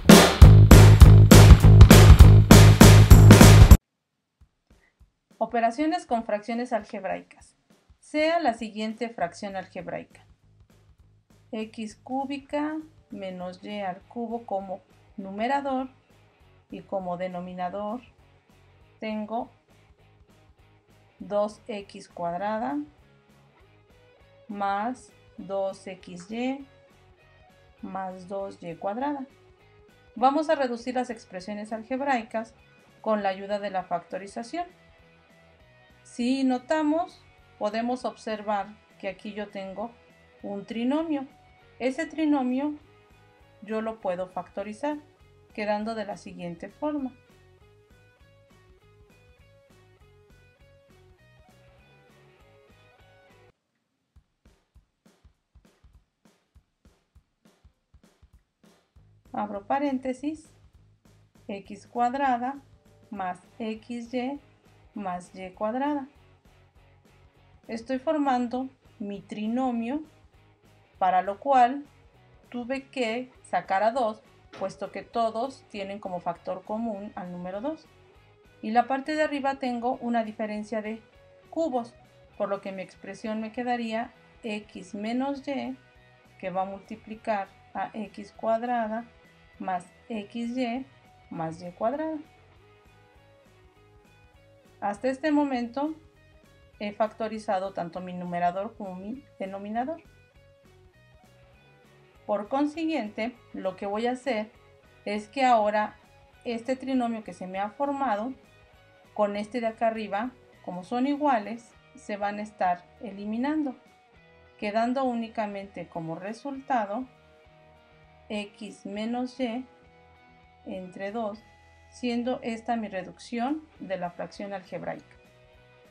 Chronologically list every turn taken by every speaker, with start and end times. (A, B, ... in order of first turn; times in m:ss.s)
0:05.4-0:10.3 A
0:11.5-0:16.0 A
0:16.7-0:18.1 A
0:19.0-0:19.6 A
0:21.2-0:22.8 A
0:24.5-0:26.7 A
0:27.8-0:29.3 A
0:30.1-0:34.7 A
0:36.0-0:42.8 A
0:43.6-0:47.2 A
0:59.3-1:00.6 A
1:01.5-1:06.1 A
1:07.7-1:10.1 A
1:11.0-1:11.9 A
1:12.5-1:17.9 A
1:18.6-1:25.8 A
1:26.4-1:32.2 A
1:34.8-1:36.0 A
1:36.8-1:40.0 A
1:42.3-1:48.4 A
1:49.1-1:53.8 A
1:54.6-1:57.1 A
1:58.3-1:59.7 A
2:00.6-2:05.2 A